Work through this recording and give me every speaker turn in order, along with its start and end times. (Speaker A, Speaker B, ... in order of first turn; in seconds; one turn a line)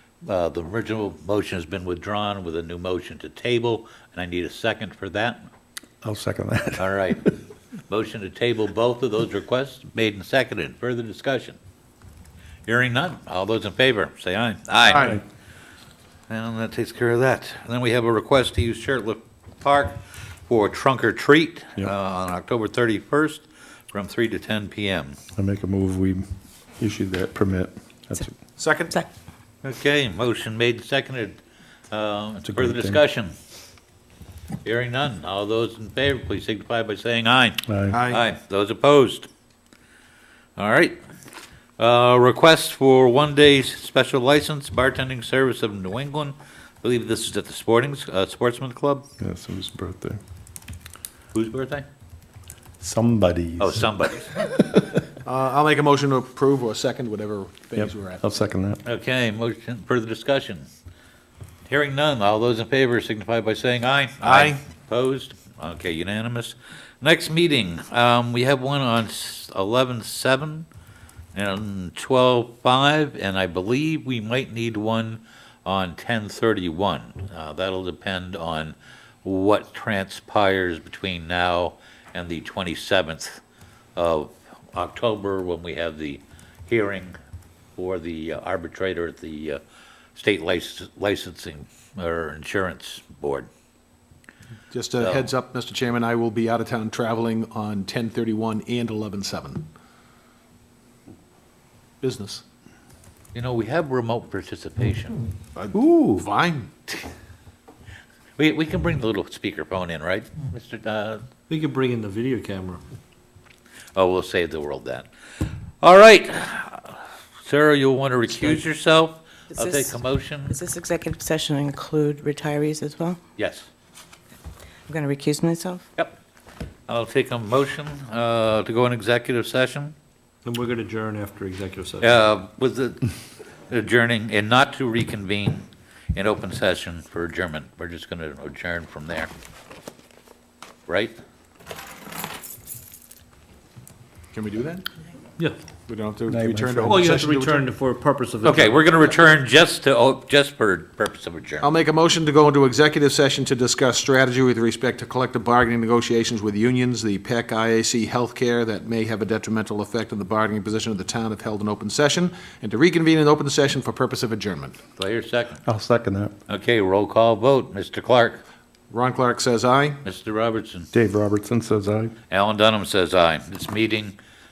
Speaker A: 0.2-5.5
Speaker B: 6.0-7.3
Speaker A: 6.8-7.3
Speaker A: 7.9-11.6
Speaker A: 12.7-15.2
Speaker C: 14.9-15.2
Speaker A: 16.3-25.2
Speaker B: 25.4-26.3
Speaker B: 26.8-28.4
Speaker C: 28.6-29.0
Speaker A: 29.6-31.4
Speaker A: 31.9-33.3
Speaker B: 32.4-33.0
Speaker A: 34.6-39.3
Speaker B: 37.7-38.0
Speaker C: 37.9-38.2
Speaker A: 40.6-41.0
Speaker A: 41.8-49.1
Speaker B: 49.2-50.2
Speaker A: 51.3-51.9
Speaker B: 52.8-53.9
Speaker A: 53.6-54.4
Speaker C: 55.2-58.2
Speaker B: 57.8-58.8
Speaker A: 58.8-60.7
Speaker A: 61.7-70.7
Speaker C: 64.2-64.6
Speaker A: 71.3-83.4
Speaker A: 84.0-87.2
Speaker A: 87.8-89.6
Speaker A: 90.2-93.5
Speaker C: 94.7-99.7
Speaker A: 95.0-95.3
Speaker C: 102.0-102.4
Speaker A: 103.3-105.2
Speaker C: 105.5-106.7
Speaker D: 105.8-106.2
Speaker A: 108.4-111.2
Speaker D: 111.5-112.8
Speaker A: 113.9-115.1
Speaker A: 115.8-120.5
Speaker E: 119.5-123.2
Speaker A: 123.4-123.7
Speaker E: 124.9-125.8
Speaker A: 126.9-129.9
Speaker D: 130.4-132.2
Speaker A: 132.0-133.1
Speaker A: 133.7-139.3
Speaker A: 140.9-141.2
Speaker C: 144.3-144.8
Speaker C: 145.9-147.7
Speaker B: 146.3-147.1
Speaker D: 146.8-149.0
Speaker A: 148.4-151.7
Speaker C: 151.6-164.8
Speaker A: 164.9-165.6
Speaker B: 165.6-166.3
Speaker A: 166.5-168.4
Speaker C: 168.9-170.0
Speaker A: 170.0-170.9
Speaker B: 170.9-172.1
Speaker A: 172.3-174.2